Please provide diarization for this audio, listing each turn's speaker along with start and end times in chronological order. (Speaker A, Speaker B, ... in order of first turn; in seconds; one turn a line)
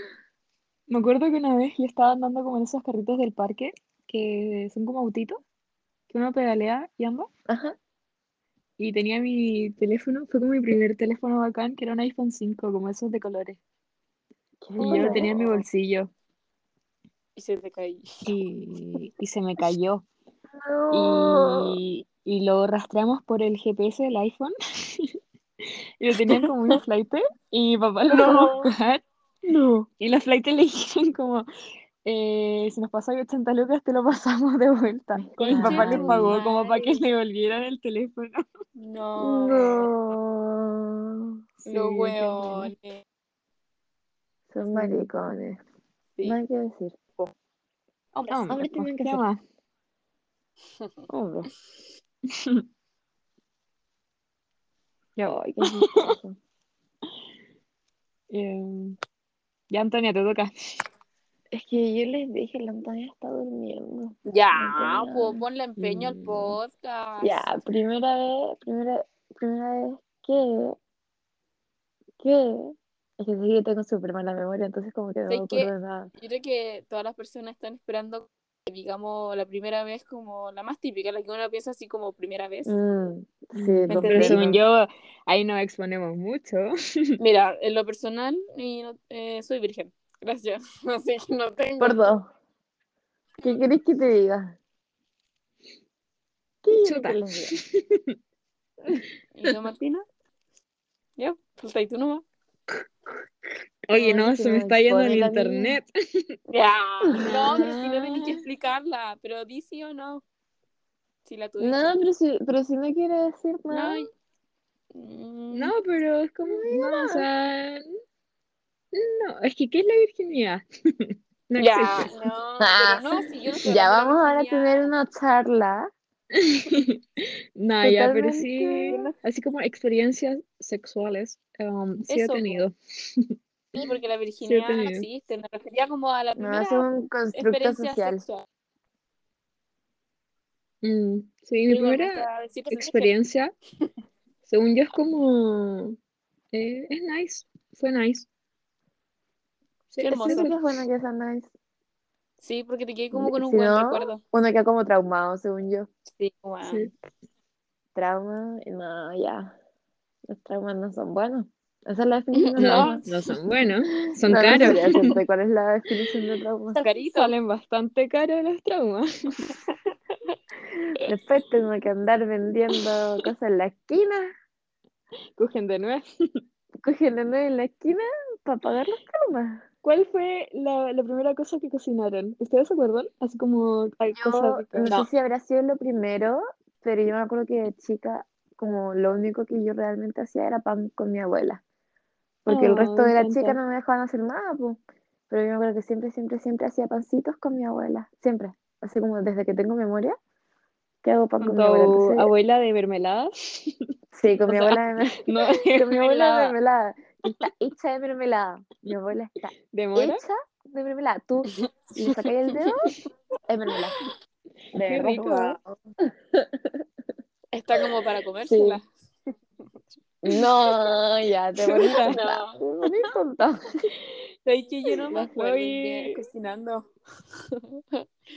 Speaker A: 0.9-5.4
Speaker A: 6.1-7.3
Speaker B: 7.5-7.8
Speaker A: 8.8-13.6
Speaker B: 14.6-15.6
Speaker A: 14.8-16.1
Speaker C: 14.8-15.3
Speaker C: 17.4-18.1
Speaker A: 18.3-20.1
Speaker B: 20.6-21.8
Speaker A: 20.9-25.2
Speaker A: 26.0-29.0
Speaker C: 28.1-28.7
Speaker B: 29.4-29.9
Speaker A: 30.0-31.5
Speaker A: 32.0-38.4
Speaker B: 35.2-36.3
Speaker C: 35.4-37.0
Speaker C: 38.8-39.9
Speaker B: 39.2-41.4
Speaker A: 41.6-42.7
Speaker C: 41.7-43.0
Speaker B: 44.5-45.6
Speaker A: 44.7-45.1
Speaker B: 46.2-47.0
Speaker A: 48.3-49.4
Speaker B: 48.5-49.2
Speaker B: 51.1-51.5
Speaker A: 52.3-52.6
Speaker A: 55.2-56.1
Speaker B: 55.2-56.4
Speaker A: 58.3-59.0
Speaker A: 59.7-60.5
Speaker B: 61.5-65.4
Speaker C: 64.3-67.5
Speaker A: 65.8-66.6
Speaker B: 67.2-70.8
Speaker B: 72.2-76.1
Speaker C: 75.3-82.8
Speaker B: 82.7-84.6
Speaker A: 83.5-87.2
Speaker C: 83.9-84.5
Speaker C: 87.2-92.1
Speaker B: 91.8-92.3
Speaker B: 93.4-94.6
Speaker B: 96.6-97.6
Speaker A: 96.8-98.2
Speaker C: 99.3-100.0
Speaker C: 101.2-102.2
Speaker A: 103.9-106.3
Speaker B: 103.9-105.8
Speaker C: 106.5-110.2
Speaker B: 107.1-107.7
Speaker A: 107.2-108.4
Speaker C: 111.2-111.9
Speaker B: 111.6-114.0
Speaker C: 113.7-114.1
Speaker C: 114.9-115.7
Speaker A: 115.5-117.9
Speaker B: 116.5-117.3
Speaker A: 118.9-122.1
Speaker C: 121.6-125.0
Speaker B: 122.6-123.1
Speaker B: 123.6-125.9
Speaker A: 126.3-133.3
Speaker B: 127.8-129.0
Speaker C: 128.9-129.1
Speaker C: 132.1-132.6
Speaker C: 133.8-138.5
Speaker A: 134.4-135.1
Speaker B: 136.4-138.2
Speaker A: 140.8-143.5
Speaker C: 141.7-143.1
Speaker A: 144.5-146.0
Speaker A: 146.5-148.3
Speaker A: 149.9-150.7
Speaker C: 150.0-150.5
Speaker B: 150.2-151.5
Speaker C: 152.4-154.2
Speaker B: 153.1-155.9
Speaker C: 156.2-156.9
Speaker A: 156.6-156.9
Speaker B: 157.9-159.6
Speaker B: 160.3-163.0
Speaker C: 162.3-163.1
Speaker A: 162.6-165.1
Speaker B: 164.3-166.8
Speaker C: 164.6-165.1
Speaker C: 166.7-167.3
Speaker A: 166.9-169.5
Speaker B: 171.0-174.3
Speaker A: 175.4-176.4
Speaker B: 176.8-179.7
Speaker A: 179.8-185.1
Speaker B: 184.2-191.6
Speaker B: 192.5-194.8
Speaker A: 192.5-193.6
Speaker B: 195.3-200.2
Speaker B: 201.0-202.3
Speaker A: 201.4-203.8
Speaker B: 204.1-212.9
Speaker A: 204.5-206.6
Speaker A: 209.7-210.2
Speaker B: 213.5-214.0
Speaker B: 214.7-215.6
Speaker A: 214.9-215.6
Speaker B: 216.3-216.7
Speaker C: 217.5-218.8
Speaker B: 218.4-218.8
Speaker B: 220.2-223.7
Speaker A: 221.6-222.2
Speaker C: 222.1-222.6
Speaker C: 224.4-226.9
Speaker A: 225.0-226.2
Speaker C: 227.5-228.1